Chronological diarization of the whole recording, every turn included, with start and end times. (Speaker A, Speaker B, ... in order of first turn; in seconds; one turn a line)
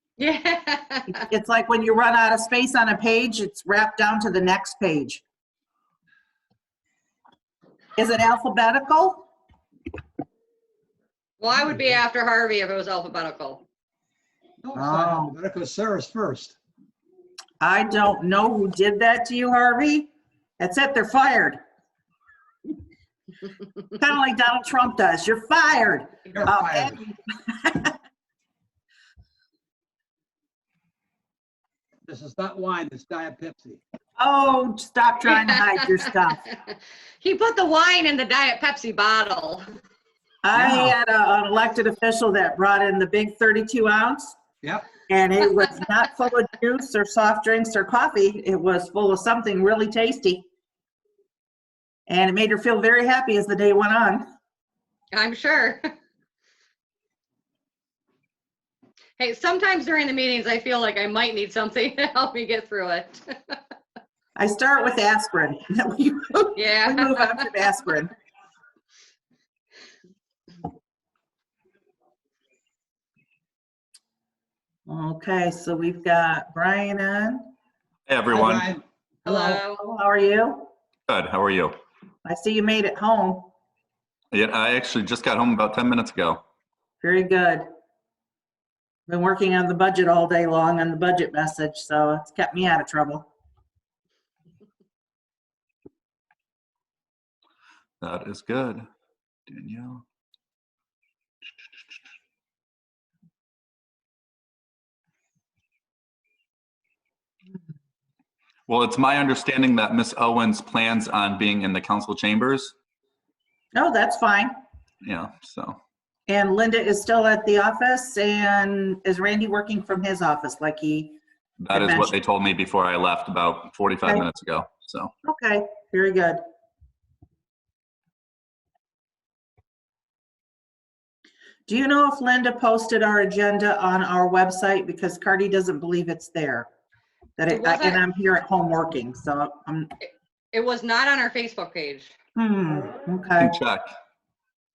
Speaker A: 0.2-1.2
Speaker B: 1.1-5.2
Speaker B: 8.0-9.2
Speaker A: 11.4-13.6
Speaker C: 14.6-16.5
Speaker B: 14.7-15.3
Speaker B: 17.6-21.6
Speaker B: 24.0-27.9
Speaker C: 26.3-27.0
Speaker C: 32.0-33.8
Speaker B: 34.2-36.4
Speaker A: 36.5-39.6
Speaker B: 40.4-44.4
Speaker C: 40.5-40.9
Speaker B: 45.1-50.5
Speaker B: 52.1-54.2
Speaker A: 55.1-55.9
Speaker A: 59.2-63.6
Speaker B: 64.4-68.1
Speaker A: 66.5-67.4
Speaker B: 74.9-77.4
Speaker D: 78.1-78.7
Speaker C: 78.3-79.6
Speaker A: 79.2-79.8
Speaker B: 79.8-80.7
Speaker D: 81.1-81.8
Speaker B: 82.2-83.5
Speaker D: 84.3-86.4
Speaker B: 87.0-87.7
Speaker B: 89.1-93.3
Speaker D: 98.0-98.8
Speaker D: 99.5-100.0
Speaker D: 108.7-112.7
Speaker B: 113.7-114.5
Speaker D: 115.0-115.8
Speaker B: 116.3-121.2
Speaker D: 121.6-125.1
Speaker B: 121.7-122.1
Speaker B: 125.2-126.4
Speaker B: 131.7-136.7
Speaker B: 137.4-139.9
Speaker A: 137.5-138.0
Speaker A: 140.0-142.1
Speaker B: 142.3-143.5
Speaker D: 143.4-143.9